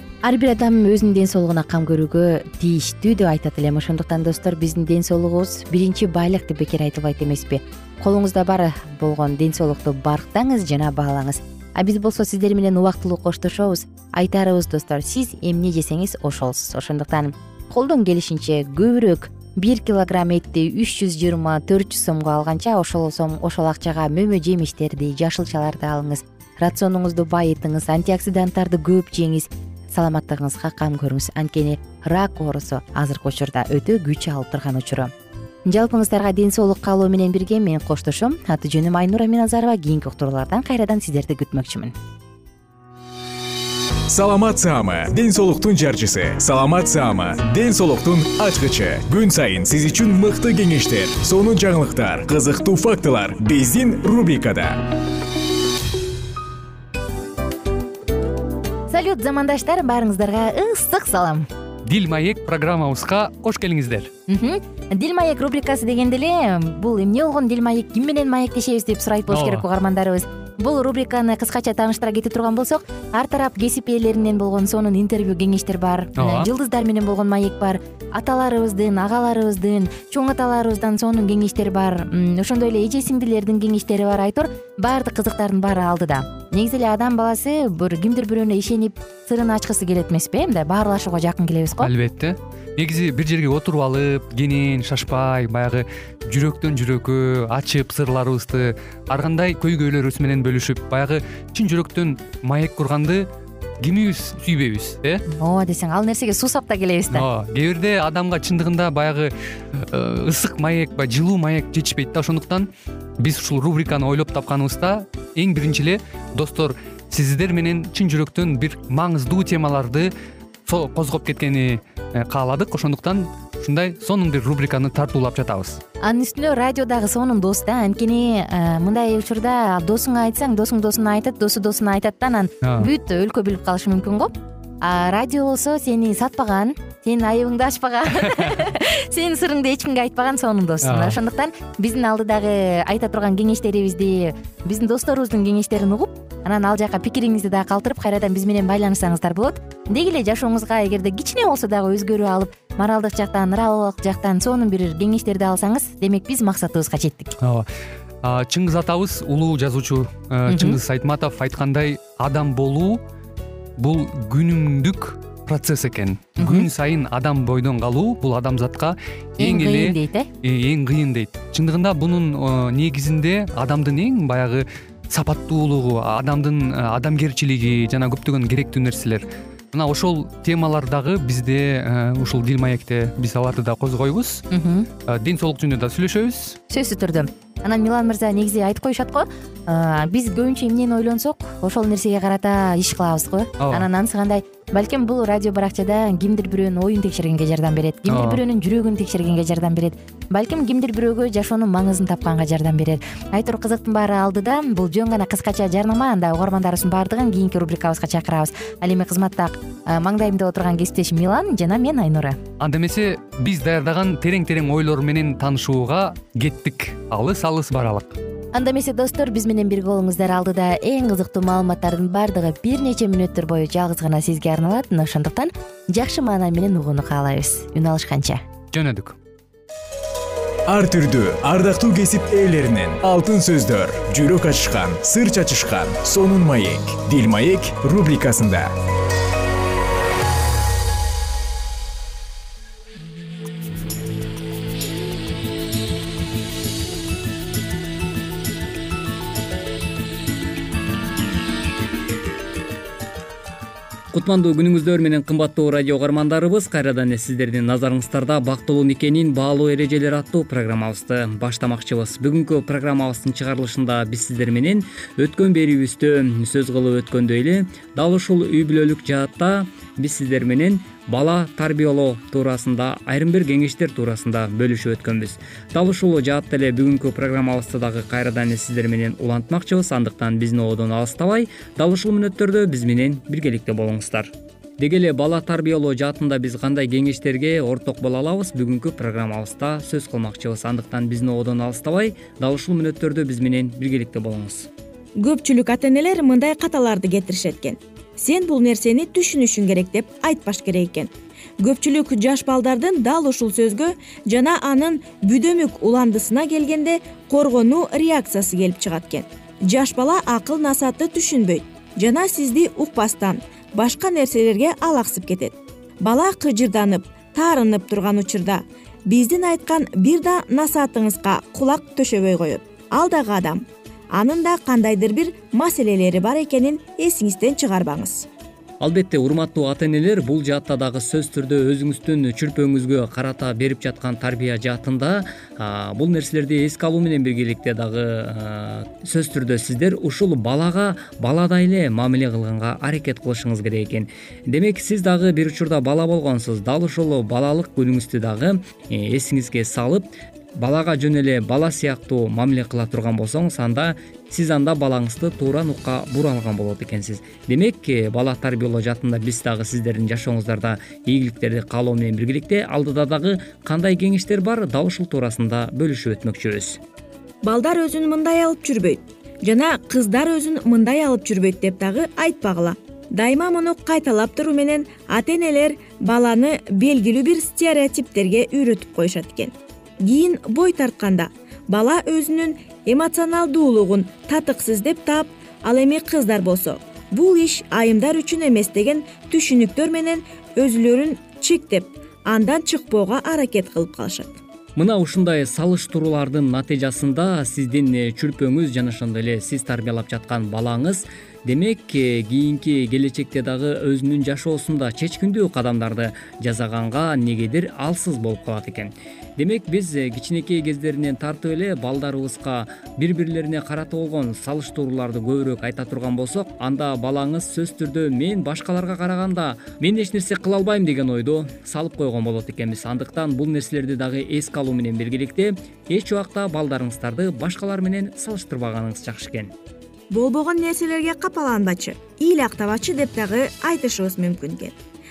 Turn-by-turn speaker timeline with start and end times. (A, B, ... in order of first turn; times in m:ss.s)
0:00.2-0:35.1 A
0:35.7-0:41.9 A
0:44.1-0:54.9 B
0:58.9-1:01.5 A
1:01.9-1:04.1 C
1:04.3-1:31.9 A
1:09.3-1:09.6 C
1:16.2-1:16.5 C
1:31.8-1:43.3 C
1:43.8-1:45.2 C
1:45.3-1:47.2 A
1:47.1-1:52.7 C
1:53.2-2:00.1 C
2:00.7-2:05.8 C
2:06.0-2:37.3 A
2:12.6-2:12.9 C
2:20.9-2:21.2 C
2:37.4-2:37.7 C
2:38.2-2:43.0 C
2:40.5-2:40.8 A
2:43.8-3:04.4 C
2:46.4-2:46.7 A
2:49.4-2:50.3 A
3:04.5-3:04.9 A
3:05.1-3:06.6 C
3:06.7-3:32.4 A
3:13.6-3:13.9 C
3:18.1-3:18.4 C
3:32.6-3:38.2 C
3:38.5-3:48.4 A
3:48.7-3:49.2 C
3:50.7-3:58.7 B
4:14.1-4:54.7 D
4:55.2-5:23.6 E
5:24.2-5:28.3 E
5:28.8-6:06.8 D
6:07.4-6:34.4 E
6:34.8-7:09.5 D
7:10.1-7:14.8 E